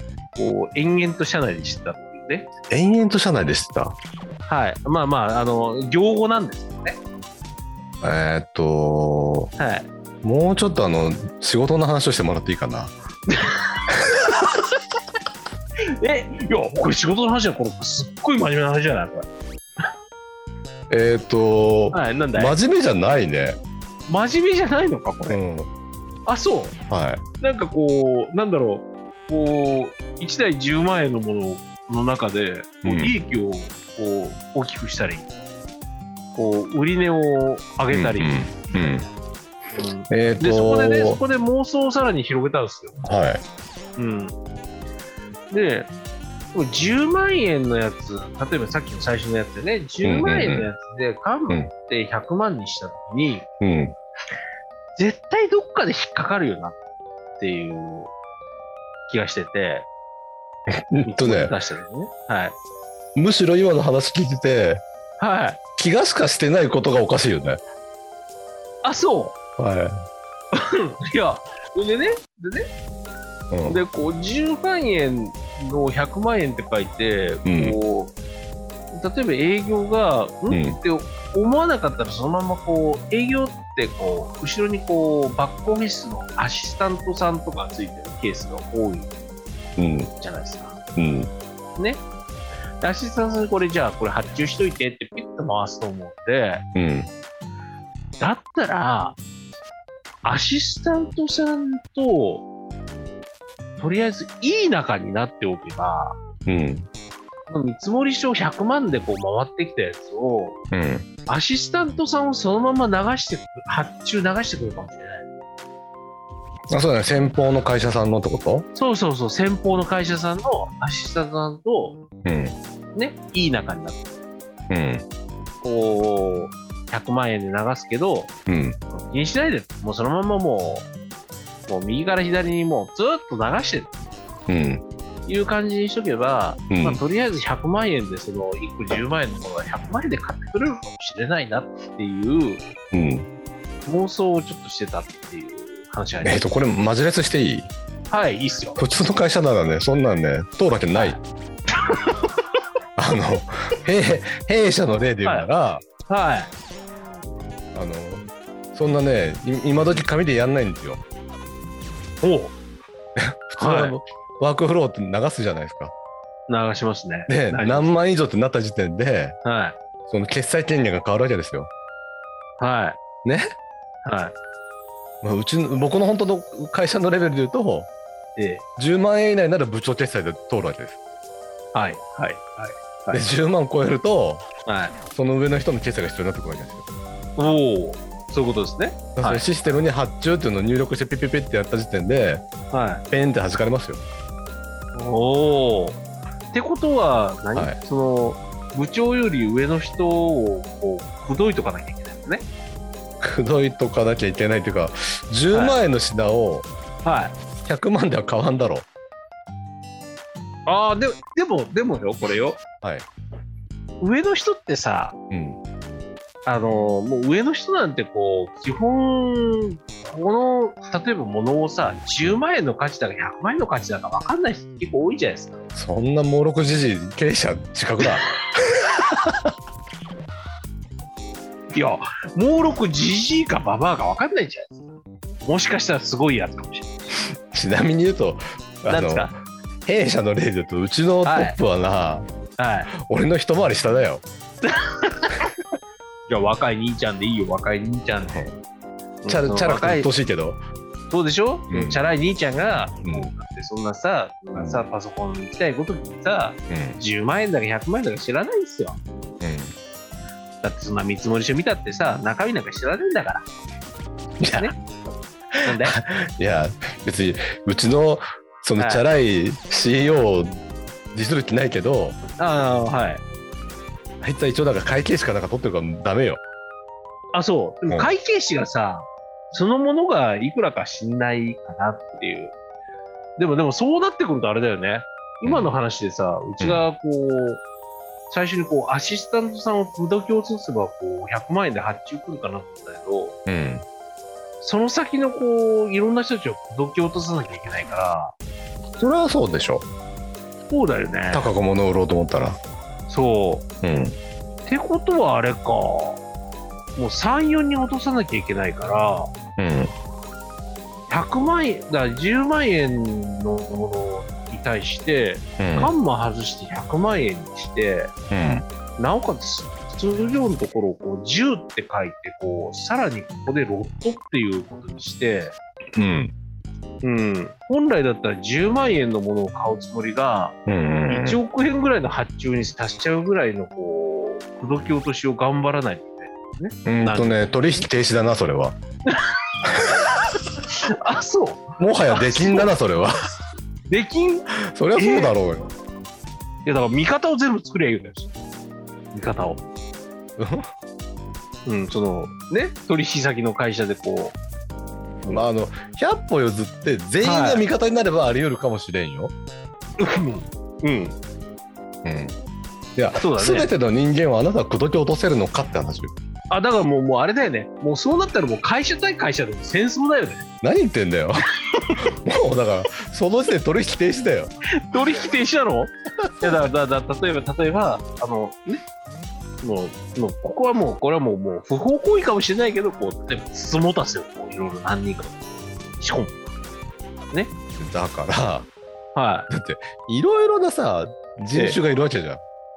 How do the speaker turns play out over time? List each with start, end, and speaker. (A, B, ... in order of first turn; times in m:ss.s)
0:00.4-0:02.5 A
0:02.7-0:04.0 B
0:04.5-0:07.0 A
0:08.0-0:09.5 B
0:09.6-0:09.9 A
0:10.2-0:13.0 B
0:13.3-0:13.8 A
0:14.3-0:14.6 A
0:16.0-0:19.3 A
0:20.9-0:23.6 B
0:21.9-0:22.6 A
0:24.1-0:25.4 A
0:25.3-0:25.7 B
0:26.3-0:26.8 A
0:26.9-0:27.2 B
0:27.4-0:35.3 A
0:32.8-0:33.1 B
0:36.4-0:39.0 A
0:37.9-0:39.0 B
0:39.7-0:43.0 A
0:40.1-0:41.2 B
0:43.0-0:43.4 B
0:44.0-0:44.4 A
0:45.5-0:45.9 A
0:46.5-0:53.5 A
0:50.0-0:50.7 B
0:53.6-0:54.0 B
0:55.0-0:56.8 A
0:57.4-0:58.1 A
0:59.1-0:59.9 A
1:00.9-1:01.5 B
1:01.0-1:02.6 A
1:03.2-1:04.8 B
1:05.2-1:05.6 A
1:05.8-1:07.6 B
1:08.8-1:09.4 A
1:09.6-1:09.9 B
1:10.6-1:12.7 A
1:13.5-1:13.8 B
1:13.7-1:18.1 A
1:17.4-1:17.8 B
1:18.9-1:29.1 A
1:20.5-1:20.8 B
1:29.8-1:30.1 B
1:30.2-1:30.8 A
1:31.0-1:31.3 B
1:31.8-1:32.0 A
1:32.8-1:36.6 A
1:36.8-1:37.1 B
1:38.2-1:39.2 A
1:40.2-1:42.5 A
1:43.8-1:46.2 A
1:46.5-1:46.9 B
1:47.5-1:50.6 A
1:50.7-1:51.1 B
1:51.3-1:55.3 A
1:56.7-1:58.7 B
1:58.8-2:02.0 A
2:02.2-2:02.6 B
2:02.9-2:04.1 A
2:04.7-2:05.0 B
2:05.6-2:08.3 A
2:08.5-2:08.8 B
2:08.9-2:10.9 A
2:11.7-2:14.0 A
2:14.5-2:14.8 B
2:15.3-2:22.6 A
2:16.7-2:17.0 B
2:22.9-2:23.2 B
2:23.9-2:26.4 A
2:26.2-2:27.7 B
2:28.1-2:28.8 A
2:28.8-2:31.2 B
2:31.0-2:31.2 A
2:33.0-2:35.8 B
2:36.1-2:36.5 A
2:37.7-2:41.0 B
2:42.2-2:42.5 A
2:43.2-2:45.9 B
2:43.6-2:44.0 A
2:46.5-2:47.9 A
2:47.3-2:49.4 B
2:49.4-2:49.8 A
2:50.1-2:51.7 B
2:52.6-2:53.0 A
2:54.0-2:54.4 A
2:55.2-2:57.9 B
2:58.4-2:58.6 A
2:58.8-3:01.0 B
3:01.7-3:03.2 A
3:03.1-3:04.4 B
3:04.7-3:05.0 A
3:05.1-3:06.8 B
3:07.4-3:09.5 A
3:09.2-3:12.5 B
3:12.7-3:13.0 A
3:13.1-3:14.0 B
3:14.9-3:16.0 A
3:16.5-3:22.5 A
3:23.2-3:26.7 B
3:25.5-3:25.8 A
3:27.0-3:27.4 A
3:27.6-3:28.9 B
3:30.7-3:32.6 A
3:32.8-3:33.1 B
3:34.0-3:35.2 A
3:35.3-3:35.6 B
3:36.4-3:45.6 A
3:45.8-3:49.5 B
3:51.7-3:54.8 A
3:55.4-3:56.9 A
3:57.5-4:02.3 B
3:58.9-3:59.3 A
4:01.2-4:01.6 A
4:02.6-4:02.9 A
4:03.1-4:04.2 B
4:04.6-4:05.3 A
4:06.3-4:08.4 A
4:08.3-4:08.6 B
4:09.2-4:10.1 A
4:09.3-4:10.6 B
4:11.1-4:19.0 A
4:11.7-4:12.0 B
4:13.0-4:13.3 B
4:14.6-4:14.8 B
4:16.7-4:17.0 B
4:19.4-4:19.8 B
4:20.6-4:23.4 A
4:24.4-4:24.7 B
4:25.6-4:30.6 B
4:25.6-4:26.0 A
4:28.8-4:29.0 A
4:31.1-4:32.2 B
4:32.4-4:33.2 A
4:34.2-4:36.4 B
4:37.3-4:42.6 A
4:43.4-4:47.6 A
4:45.4-4:45.8 B
4:48.3-4:53.4 A
4:53.5-4:53.8 B
4:54.6-4:58.4 A
4:59.0-4:59.9 B
5:00.7-5:01.5 A
5:01.3-5:02.6 B
5:03.1-5:03.7 A
5:03.8-5:04.2 B
5:04.7-5:06.2 A
5:07.0-5:09.3 A
5:09.6-5:09.9 B
5:11.1-5:18.1 A
5:15.6-5:15.9 B
5:18.3-5:18.6 B
5:19.0-5:25.6 A
5:26.0-5:26.3 B
5:27.0-5:30.6 A
5:30.7-5:31.4 B
5:31.1-5:37.4 A
5:36.9-5:38.8 B
5:39.1-5:40.1 A
5:40.7-5:42.7 A
5:41.8-5:43.1 B
5:43.9-5:45.3 A
5:44.7-5:45.7 B
5:46.6-5:48.3 A
5:49.1-5:49.6 A
5:50.4-5:50.7 B
5:51.7-5:54.4 A
5:55.2-5:55.5 A
5:55.3-5:59.3 B
5:57.2-5:57.7 A
6:00.0-6:01.2 A
6:02.0-6:02.4 B
6:03.0-6:06.1 B
6:03.2-6:03.7 A
6:06.5-6:10.5 A
6:10.6-6:11.3 B
6:12.2-6:14.5 B
6:14.9-6:18.8 A
6:19.6-6:25.4 A
6:26.0-6:26.4 A
6:27.8-6:28.7 B
6:29.2-6:29.5 A
6:29.5-6:32.4 B
6:31.5-6:31.8 A